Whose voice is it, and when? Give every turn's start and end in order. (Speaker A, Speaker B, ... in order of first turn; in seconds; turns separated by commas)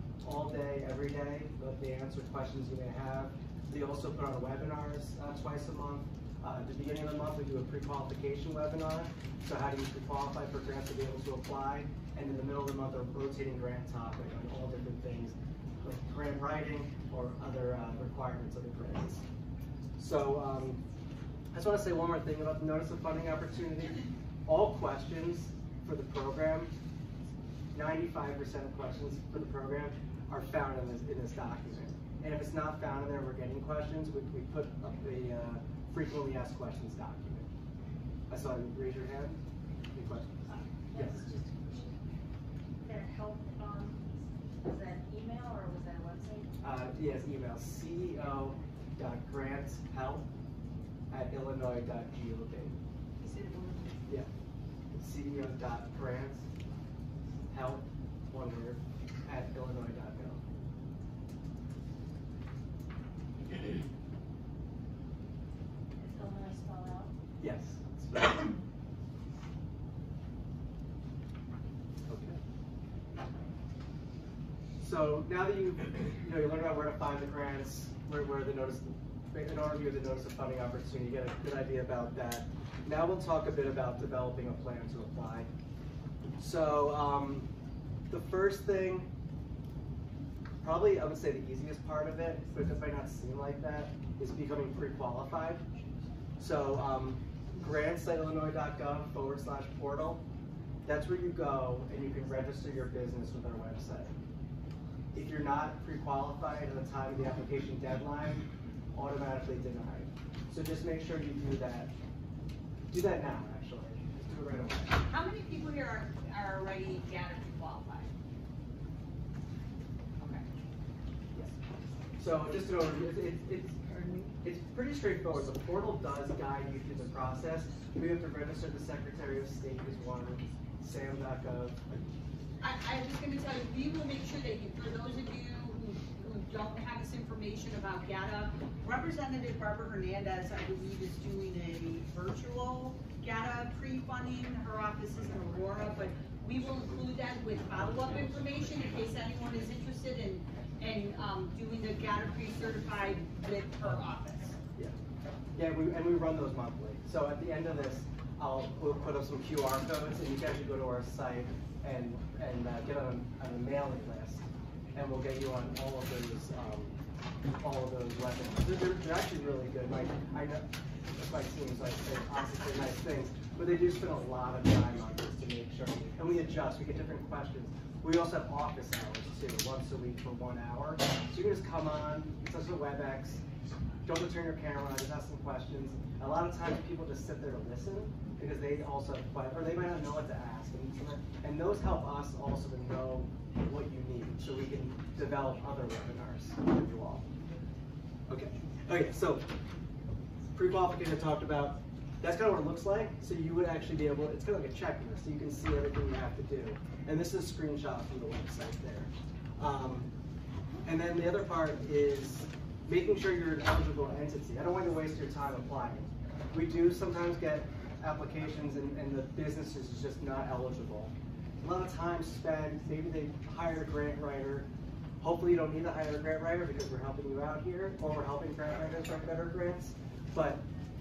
Speaker A: 0.2-19.2, Speaker A: 20.0-20.8, Speaker A: 21.5-26.7, Speaker A: 27.7-37.5, Speaker A: 38.3-39.4, Speaker A: 39.9-40.4, Speaker A: 40.9-41.2, Speaker B: 43.0-43.9, Speaker B: 44.7-46.4, Speaker A: 46.6-50.3, Speaker A: 51.1-52.8, Speaker B: 53.2-54.0, Speaker A: 54.9-56.4, Speaker A: 57.5-60.4, Speaker A: 67.4-68.5, Speaker A: 72.1-72.4, Speaker A: 74.8-85.5, Speaker A: 86.4-87.5, Speaker A: 88.1-89.1, Speaker A: 90.6-95.6, Speaker A: 96.4-100.2, Speaker A: 100.8-104.1, Speaker A: 105.1-111.9, Speaker A: 112.9-115.0, Speaker C: 115.1-118.1, Speaker C: 120.2-120.4, Speaker A: 122.2-123.8, Speaker A: 124.4-132.0, Speaker C: 132.6-154.6, Speaker A: 155.5-166.9, Speaker A: 167.5-183.4, Speaker A: 184.0-197.2, Speaker A: 198.3-199.4, Speaker A: 200.5-210.1, Speaker A: 210.8-224.7, Speaker A: 225.2-230.6